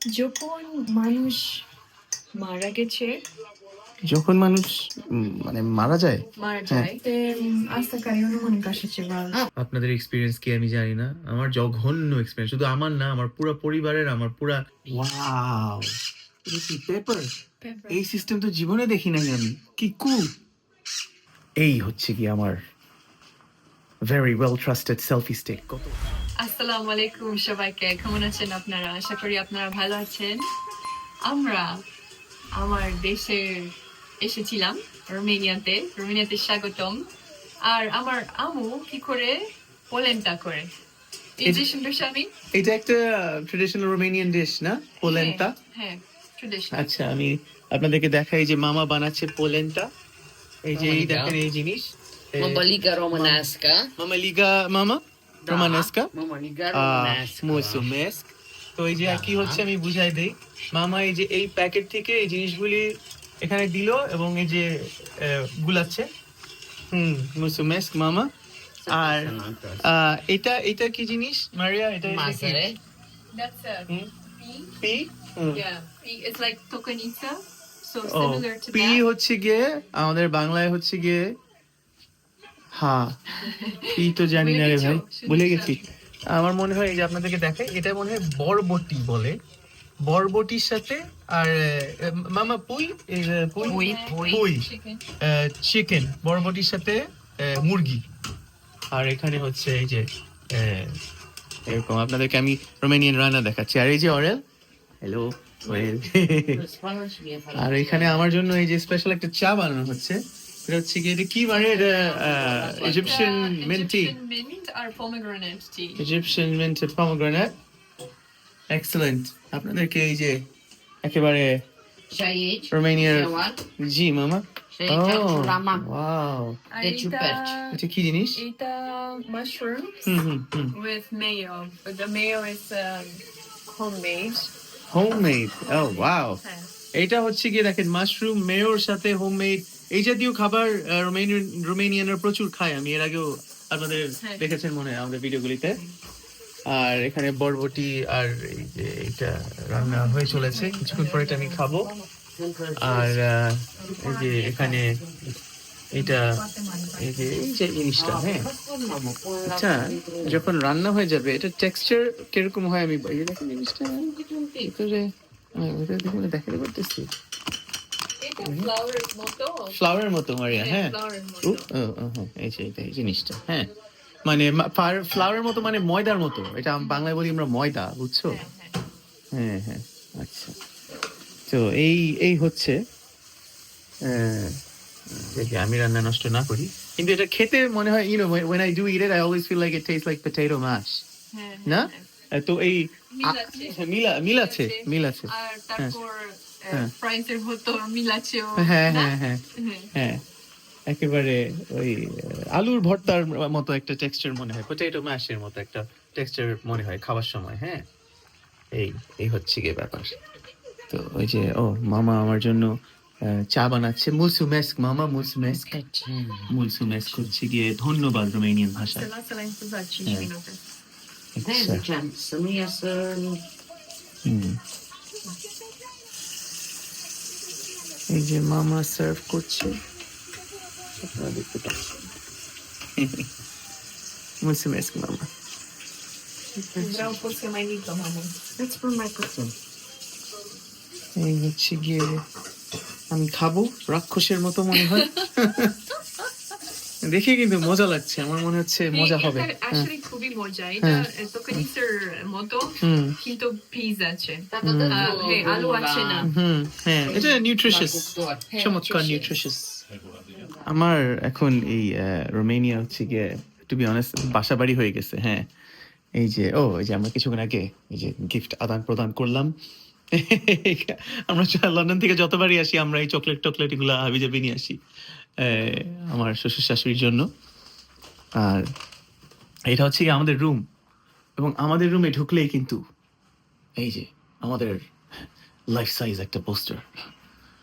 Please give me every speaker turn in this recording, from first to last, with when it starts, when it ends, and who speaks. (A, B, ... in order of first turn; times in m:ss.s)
0:00.1-0:01.7 A
0:02.4-0:03.1 A
0:04.1-0:06.9 B
0:06.4-0:09.4 A
0:09.6-0:16.0 B
0:16.5-0:17.3 B
0:17.6-0:18.0 A
0:17.9-0:20.3 B
0:21.6-0:22.6 B
0:24.0-0:26.0 B
0:26.4-0:30.5 A
0:31.2-0:31.8 A
0:32.6-0:37.1 A
0:37.6-0:40.7 A
0:41.4-0:42.3 A
0:42.5-0:45.5 B
0:45.0-0:47.0 A
0:46.7-0:49.9 B
0:50.6-0:53.4 B
0:50.8-0:51.4 C
0:52.4-0:53.9 C
0:54.0-0:56.1 B
0:55.4-0:57.9 C
0:56.7-1:02.9 B
0:59.0-0:59.6 C
1:03.4-1:06.1 B
1:06.9-1:08.3 B
1:08.8-1:09.9 C
1:08.9-1:09.3 B
1:09.8-1:12.7 B
1:12.0-1:12.8 C
1:13.3-1:14.8 A
1:14.8-1:15.6 B
1:15.5-1:19.0 A
1:18.0-1:21.2 B
1:22.8-1:23.1 B
1:23.3-1:25.8 A
1:23.9-1:29.4 B
1:30.0-1:34.7 B
1:33.6-1:35.0 A
1:33.7-1:34.4 C
1:35.2-1:38.0 B
1:38.9-1:41.0 B
1:41.7-1:44.4 B
1:45.0-1:46.6 B
1:45.7-1:48.3 C
1:47.6-1:54.2 B
1:51.5-1:53.3 C
1:52.8-1:56.0 A
1:56.0-1:57.5 B
1:58.7-2:00.4 B
2:01.0-2:01.6 B
2:02.1-2:03.6 C
2:02.7-2:06.6 B
2:04.7-2:05.9 C
2:06.7-2:07.8 A
2:06.8-2:07.6 C
2:07.7-2:08.4 B
2:08.4-2:10.2 A
2:10.1-2:10.8 B
2:10.7-2:14.5 A
2:14.9-2:16.4 B
2:15.6-2:16.7 A
2:17.0-2:25.8 B
2:24.2-2:24.5 A
2:26.7-2:31.9 B
2:29.7-2:31.7 A
2:32.0-2:33.2 C
2:32.8-2:35.0 B
2:33.8-2:34.9 A
2:34.4-2:35.3 C
2:35.9-2:36.4 B
2:35.9-2:37.5 A
2:37.0-2:38.5 B
2:38.0-2:40.5 C
2:39.5-2:47.1 B
2:44.0-2:44.8 C
2:48.2-2:49.8 A
2:48.4-2:48.7 B
2:49.7-2:53.7 B
2:50.5-2:51.7 A
2:54.2-2:58.4 B
2:56.8-2:57.0 A
2:58.3-2:58.8 A
2:59.3-3:00.5 B
3:01.5-3:02.8 B
3:04.0-3:04.6 B
3:05.1-3:11.0 B
3:11.3-3:12.1 A
3:11.6-3:16.0 B
3:13.1-3:19.9 A
3:18.6-3:19.4 B
3:20.0-3:20.2 B
3:20.9-3:27.8 B
3:28.8-3:30.2 B
3:30.9-3:32.7 B
3:33.3-3:35.7 B
3:35.4-3:37.3 C
3:36.5-3:39.1 B
3:38.8-3:40.6 A
3:41.4-3:41.8 B
3:41.4-3:43.4 C
3:44.2-3:44.6 B
3:48.1-3:49.8 B
3:51.0-3:52.0 B
3:53.0-3:53.2 B
3:54.4-3:55.3 B
3:56.7-3:57.1 B
3:56.7-3:59.5 A
4:01.2-4:02.2 B
4:03.1-4:05.7 B
4:04.7-4:05.3 A
4:07.0-4:09.9 B
4:08.9-4:16.3 A
4:10.8-4:11.6 B
4:12.8-4:13.2 B
4:14.5-4:16.3 C
4:14.6-4:15.1 B
4:16.2-4:19.8 B
4:17.0-4:18.5 C
4:18.5-4:19.3 A
4:20.3-4:20.6 C
4:20.6-4:25.5 B
4:26.2-4:29.5 B
4:30.2-4:34.8 B
4:35.4-4:37.3 B
4:38.4-4:38.6 B
4:39.7-4:40.6 B
4:41.4-4:42.8 B
4:43.8-4:44.8 B
4:45.7-4:46.8 B